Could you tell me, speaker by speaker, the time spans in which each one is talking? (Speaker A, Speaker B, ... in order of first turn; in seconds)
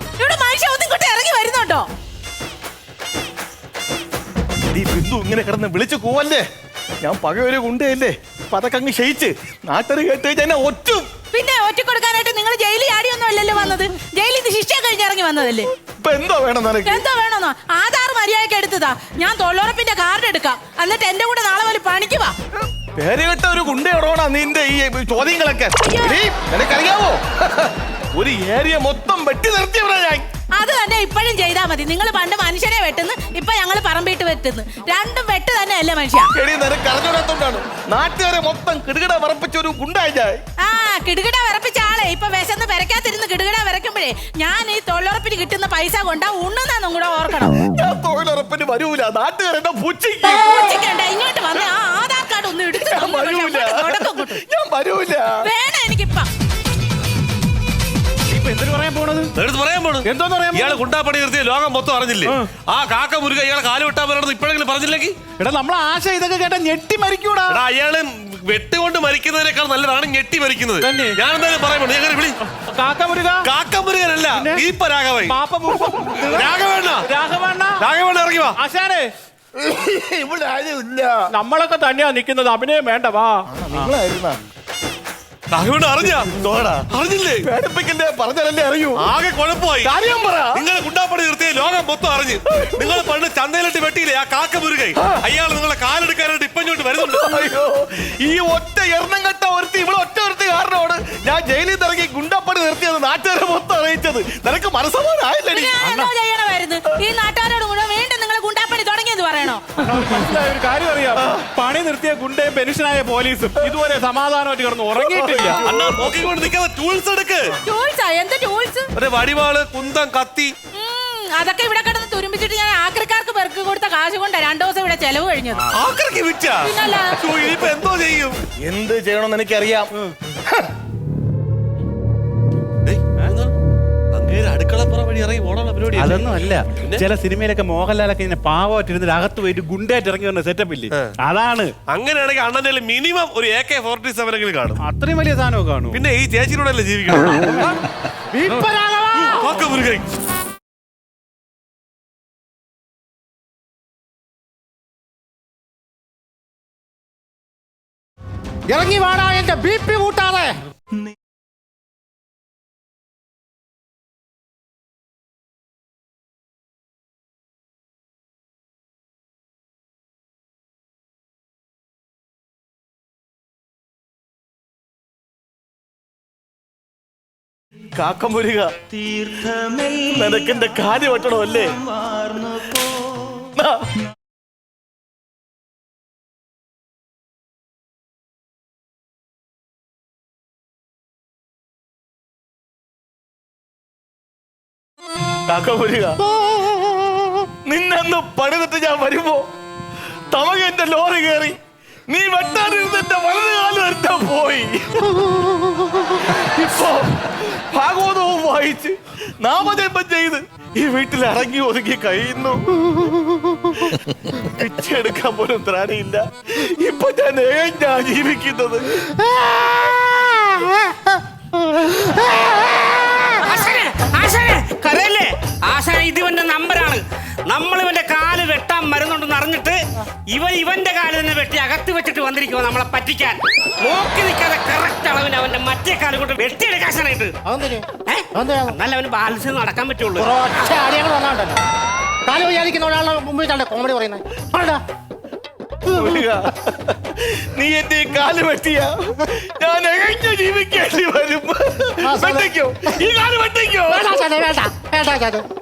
Speaker A: 0.2-1.9, 11.3-15.7, 16.8-22.4, 25.8-26.2, 30.6-36.3, 40.6-47.6, 50.2-54.4, 55.4-56.3, 105.5-109.7, 117.6-118.9, 120.7-125.7, 126.6-127.2
Speaker B: 4.7-6.4, 7.0-11.1, 16.0-17.0, 22.9-30.2, 36.3-40.4, 47.6-50.8, 52.7-55.4, 75.9-76.4, 79.7-81.2, 83.5-84.4, 86.2-86.9, 87.4-89.0, 89.8-90.6, 92.5-93.0, 97.0-105.8, 111.2-111.5, 115.0-116.1, 128.6-129.9, 177.9-181.7, 183.5-183.9, 195.5-196.2, 197.6-199.4, 200.3-201.6, 202.1-205.1, 206.1-212.6, 213.8-219.0, 245.9-254.1
Speaker C: 58.3-59.3, 60.0-60.8, 65.4-67.6, 70.8-71.2, 72.5-73.5, 74.3-74.7, 75.2-76.4, 77.0-77.9, 78.5-79.1, 81.3-83.9, 105.8-106.1, 109.8-115.6, 135.9-141.7, 144.8-146.0, 148.5-148.7
Speaker D: 59.4-65.2, 67.5-72.4, 73.4-75.3, 76.2-77.1, 77.8-78.6, 85.5-86.3, 86.9-87.5, 89.0-89.9, 90.5-97.4, 115.6-117.5, 119.0-120.5, 125.7-128.4, 132.8-133.5, 134.1-137.0, 141.9-144.8, 145.9-147.7, 149.2-150.1
Speaker E: 148.3-149.6, 158.7-160.6, 196.5-197.2, 237.4-238.8, 240.2-241.6, 242.2-244.8, 245.9-246.2, 252.0-253.1, 253.9-255.4
Speaker F: 223.4-237.3, 238.0-240.4